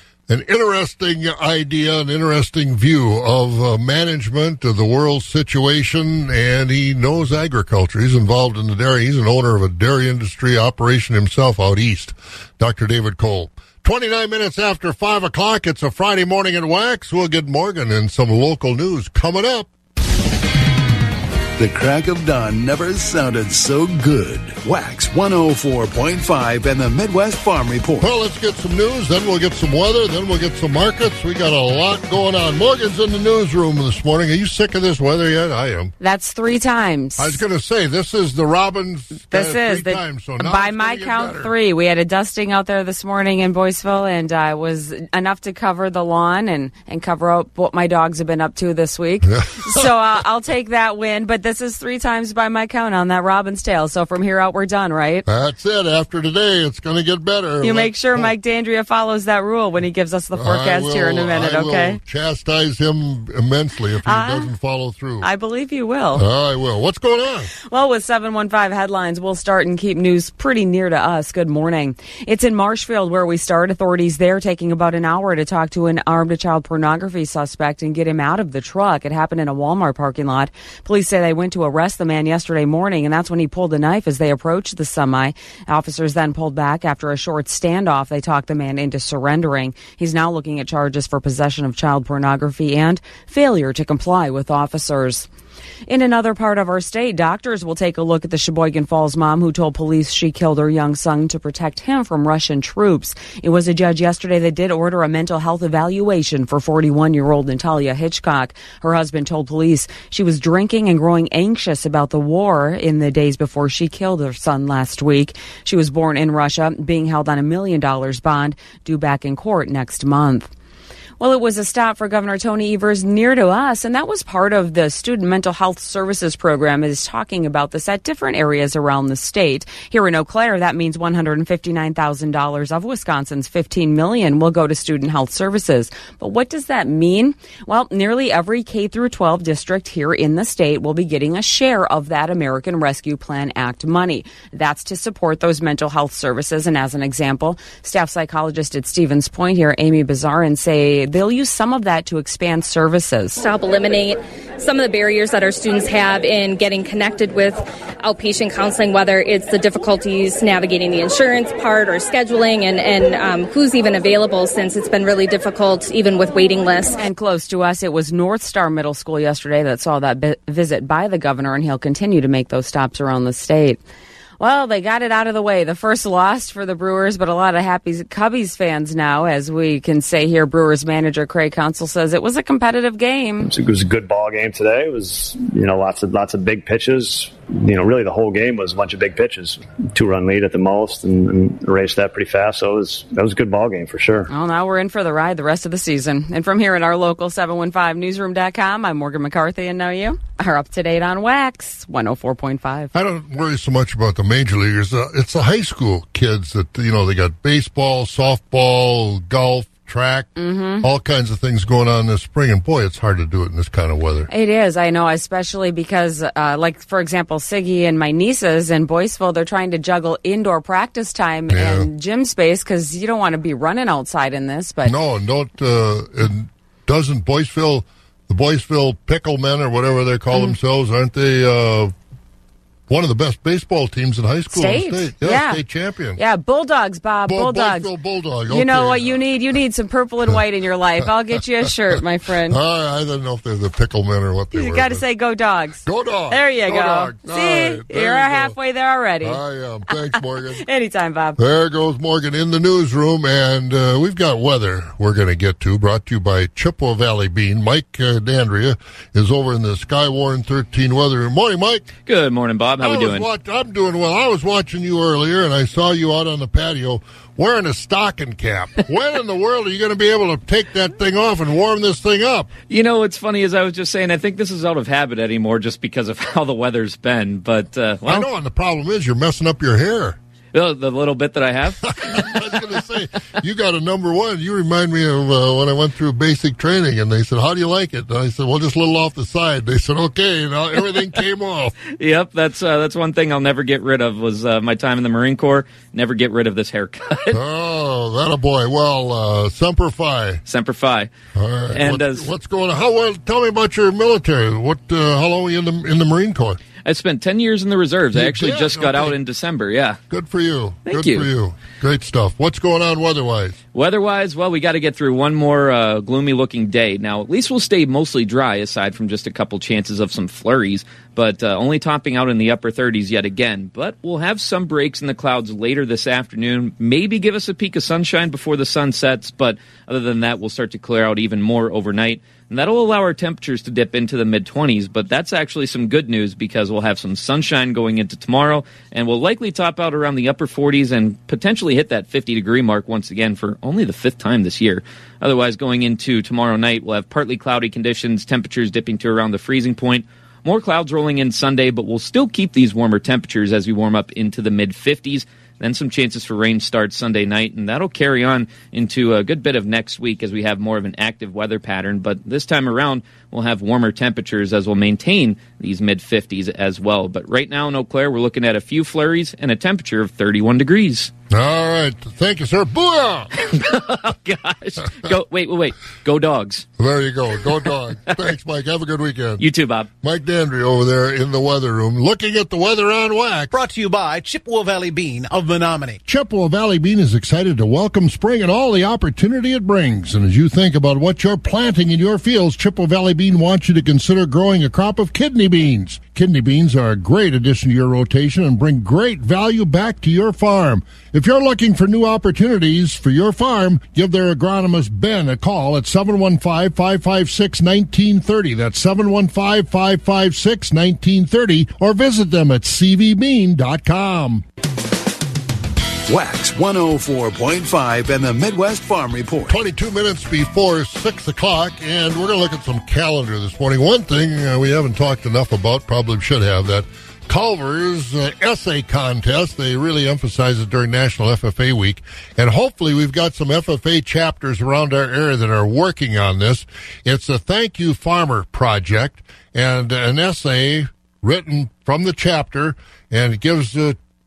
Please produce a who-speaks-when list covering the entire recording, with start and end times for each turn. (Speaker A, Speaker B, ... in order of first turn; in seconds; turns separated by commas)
Speaker A: 0.3-19.7, Speaker B: 21.6-28.1, Speaker A: 28.0-35.9, Speaker C: 36.0-37.4, Speaker A: 37.2-41.5, Speaker C: 39.3-55.2, Speaker A: 49.3-49.9, Speaker A: 55.3-58.3, Speaker C: 57.6-62.0, Speaker A: 60.3-65.3, Speaker C: 64.0-64.5, Speaker C: 65.2-66.2, Speaker A: 66.1-67.5, Speaker C: 67.6-95.3, Speaker C: 95.9-120.5, Speaker C: 121.2-153.4, Speaker D: 153.4-167.0, Speaker C: 167.0-173.8, Speaker C: 174.4-183.5, Speaker E: 183.5-194.3, Speaker C: 194.3-202.9, Speaker A: 202.9-210.3, Speaker C: 210.4-210.9, Speaker A: 210.8-214.3, Speaker C: 214.3-224.9, Speaker A: 221.5-221.9, Speaker A: 224.8-231.9, Speaker A: 232.9-236.2, Speaker C: 234.5-235.6, Speaker C: 236.2-237.9, Speaker A: 237.3-239.2, Speaker C: 238.5-242.6, Speaker A: 242.5-245.0, Speaker C: 244.5-249.4, Speaker A: 245.9-248.6, Speaker A: 249.2-250.7, Speaker C: 250.6-251.4, Speaker A: 251.4-261.9, Speaker F: 262.1-263.3, Speaker A: 262.8-272.5, Speaker F: 272.7-278.3, Speaker A: 278.1-280.2, Speaker F: 280.5-282.4, Speaker A: 281.8-291.8, Speaker F: 291.9-297.4, Speaker A: 297.3-300.4, Speaker F: 300.4-301.1, Speaker A: 301.4-306.6, Speaker F: 301.7-302.3, Speaker F: 306.8-310.0, Speaker A: 308.1-309.1, Speaker A: 310.1-313.6, Speaker F: 310.9-311.3, Speaker F: 313.7-371.1, Speaker A: 371.3-373.5, Speaker F: 373.4-376.7, Speaker A: 376.8-379.4, Speaker F: 379.4-379.9, Speaker A: 380.0-383.5, Speaker G: 383.5-386.0, Speaker A: 386.1-414.4, Speaker B: 416.1-419.6, Speaker A: 419.5-444.0